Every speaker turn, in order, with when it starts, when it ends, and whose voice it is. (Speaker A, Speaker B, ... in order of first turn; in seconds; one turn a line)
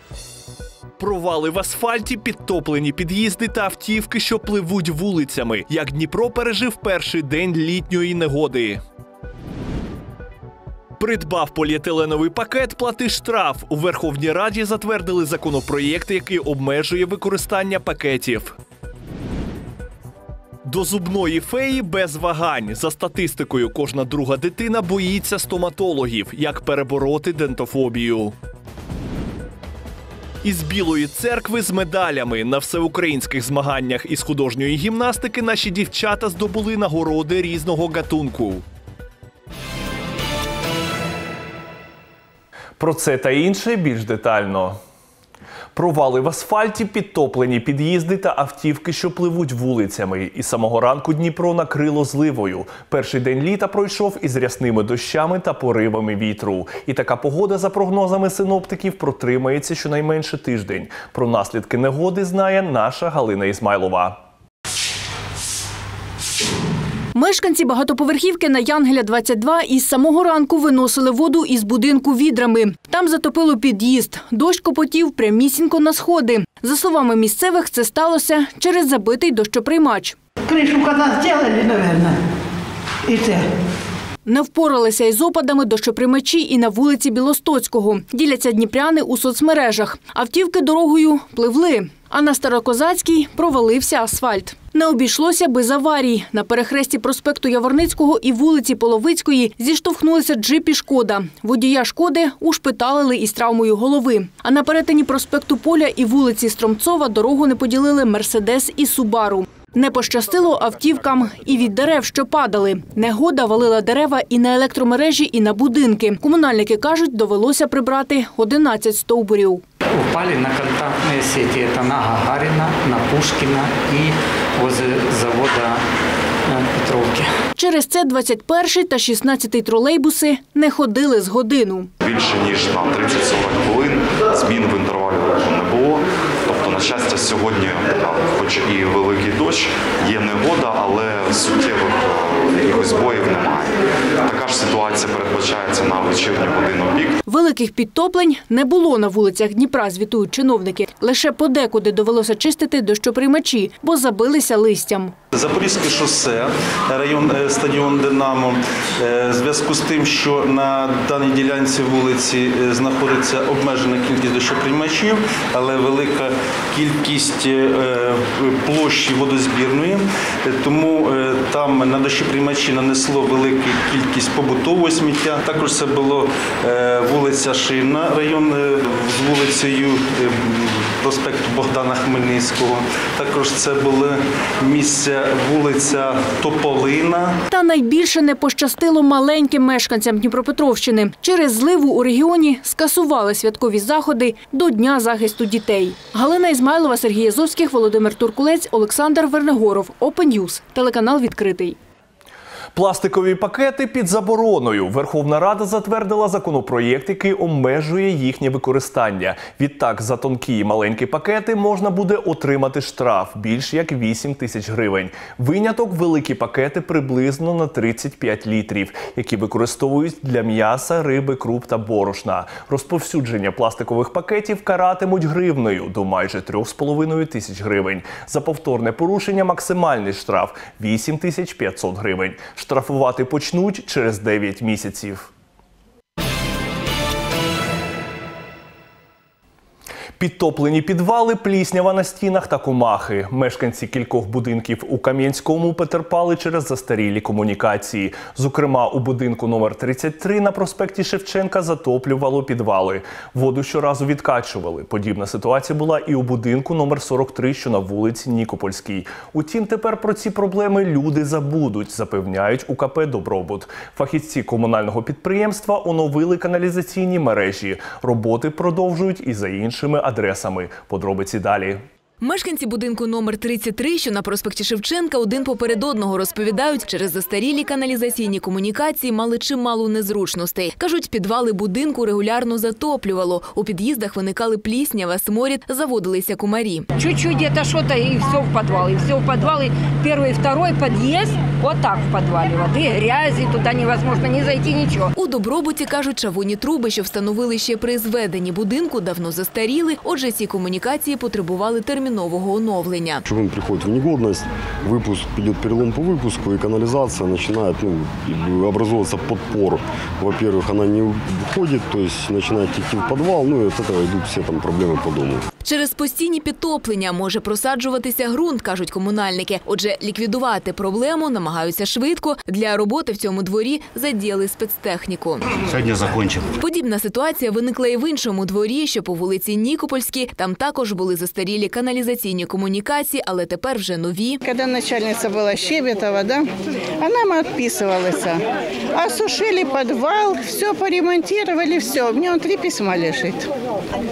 Speaker A: 1.0-8.8
Speaker A: 11.0-18.5
Speaker A: 20.6-28.3
Speaker A: 30.4-38.6
Speaker A: 42.8-44.8
Speaker A: 45.7-64.2
Speaker B: 67.1-80.2
Speaker C: 80.5-82.2
Speaker C: 83.1-83.4
Speaker B: 84.2-119.6
Speaker D: 119.9-125.8
Speaker D: 126.5-127.3
Speaker B: 127.5-131.9
Speaker E: 132.0-147.2
Speaker B: 147.2-155.1
Speaker F: 155.3-187.4
Speaker B: 187.5-201.8
Speaker A: 202.7-235.3
Speaker A: 240.2-271.8
Speaker G: 272.2-286.9
Speaker H: 286.9-295.1
Speaker G: 295.1-303.2
Speaker I: 303.2-315.4
Speaker G: 315.6-325.4
Speaker G: 326.6-334.4
Speaker C: 334.4-336.5
Speaker C: 337.0-338.4
Speaker C: 338.9-343.5